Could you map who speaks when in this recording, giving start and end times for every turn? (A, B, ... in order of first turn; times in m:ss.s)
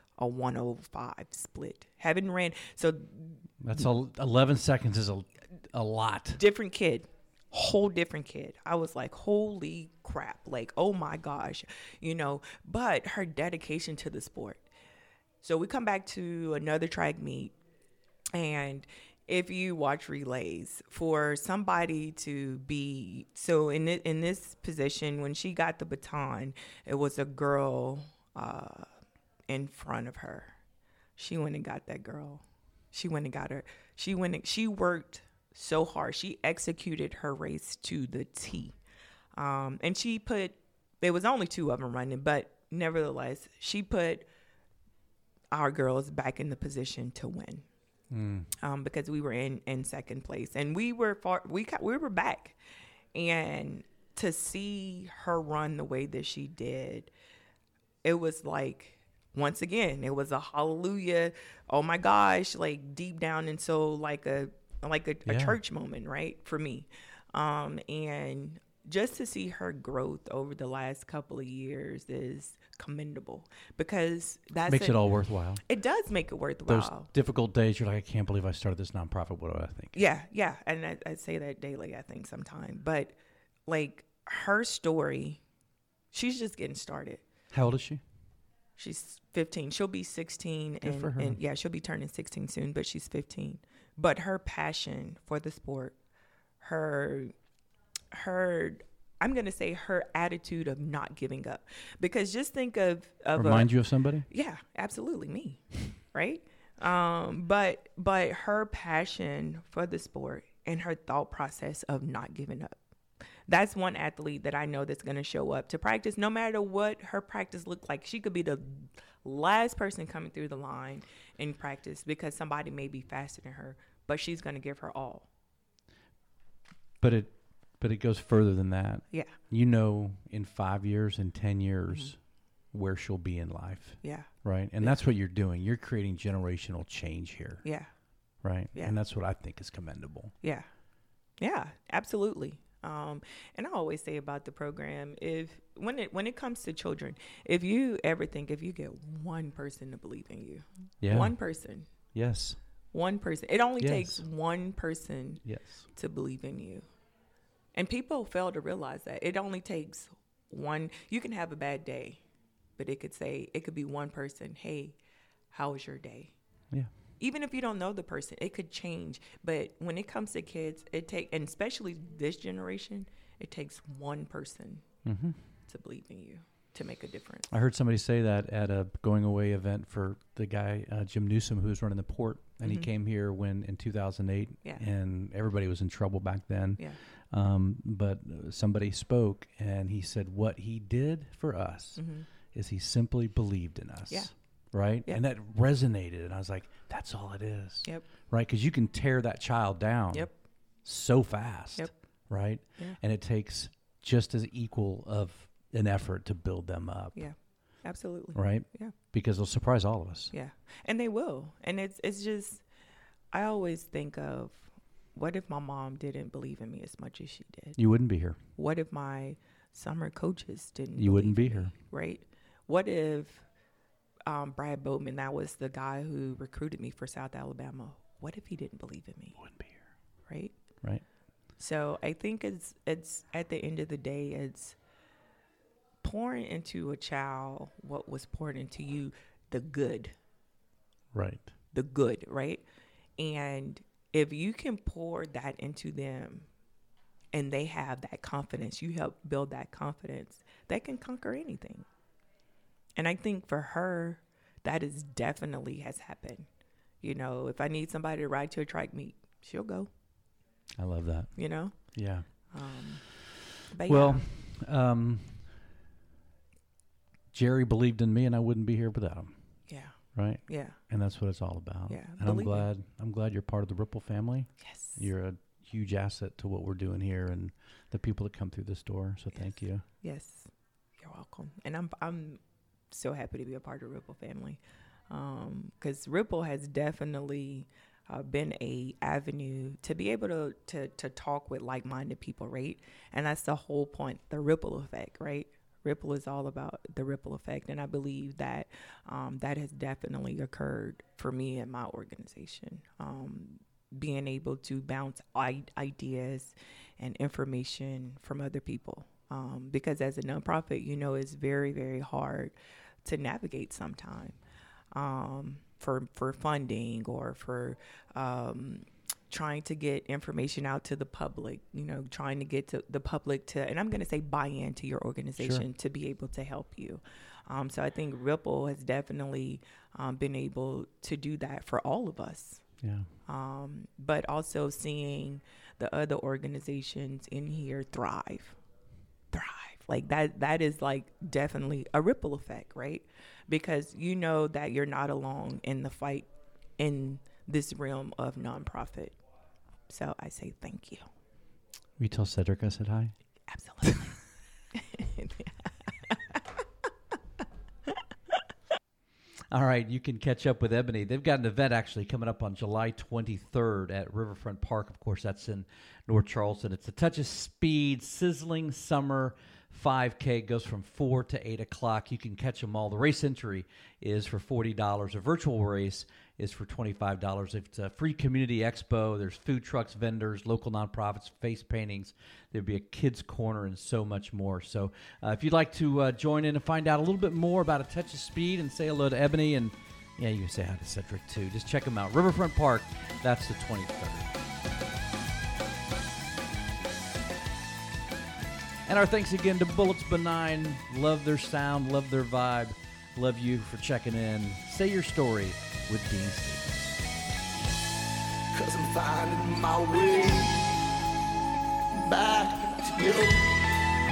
0:00.2-0:03.4 A
0:03.6-0:06.4 B
0:06.4-0:14.6 A
0:15.4-0:17.5 A
0:18.4-0:28.9 A
0:29.5-0:30.6 A
0:31.2-0:38.8 A
0:39.4-0:44.3 A
0:45.5-0:47.7 A
0:48.1-0:48.5 B
0:48.6-0:52.6 A
0:53.2-0:57.1 A
0:58.0-1:17.1 A
1:05.3-1:05.6 B
1:14.7-1:15.6 B
1:16.7-1:20.0 B
1:20.0-1:25.4 A
1:26.1-1:27.2 A
1:27.5-1:28.0 B
1:28.8-1:36.0 A
1:30.8-1:31.4 B
1:36.6-1:37.3 A
1:38.1-1:52.8 A
1:43.4-1:44.3 B
1:53.5-2:05.3 A
2:07.0-2:12.2 B
2:09.1-2:09.4 A
2:12.7-2:17.7 B
2:14.0-2:15.0 A
2:17.6-2:17.9 A
2:18.4-2:20.3 B
2:21.4-2:31.9 A
2:31.0-2:31.4 B
2:32.1-2:32.6 B
2:32.9-2:36.9 A
2:33.8-2:34.3 B
2:35.4-2:35.9 B
2:37.8-2:42.2 A
2:42.8-2:45.0 A
2:45.5-2:46.4 A
2:47.2-2:55.0 A
2:55.0-2:55.4 B
2:55.6-2:57.5 A
2:57.5-3:27.3 B
3:02.6-3:02.9 A
3:12.0-3:12.3 A
3:27.2-3:28.9 A
3:28.4-3:30.3 B
3:30.3-3:32.6 A
3:33.3-3:37.8 A
3:37.8-3:38.4 B
3:38.6-3:43.4 A
3:41.0-3:41.7 B
3:44.3-3:49.4 A
3:49.4-3:49.8 B
3:50.3-3:50.6 A
3:51.6-3:54.8 A
3:56.0-4:00.1 A
4:01.1-4:01.5 B
4:01.7-4:02.6 A
4:03.2-4:06.5 A
4:07.3-4:11.9 A
4:13.0-4:16.5 A
4:17.0-4:19.9 A
4:20.8-4:22.3 B
4:21.4-4:24.3 A
4:23.8-4:25.6 B
4:27.3-4:29.4 B
4:29.7-4:30.8 A
4:30.1-4:39.8 B
4:31.9-4:32.7 A
4:34.6-4:35.0 A
4:39.4-5:14.4 A
5:14.9-5:32.7 A
5:25.4-5:25.6 B
5:32.8-5:33.1 B
5:33.3-5:38.6 A
5:39.3-5:49.2 A
5:49.9-5:51.1 A
5:52.0-5:53.2 B
5:53.5-5:54.2 A
5:54.7-5:56.4 A
5:59.5-6:34.3 B
6:38.8-6:47.0 B
6:48.6-6:50.7 C
6:52.0-6:53.6 C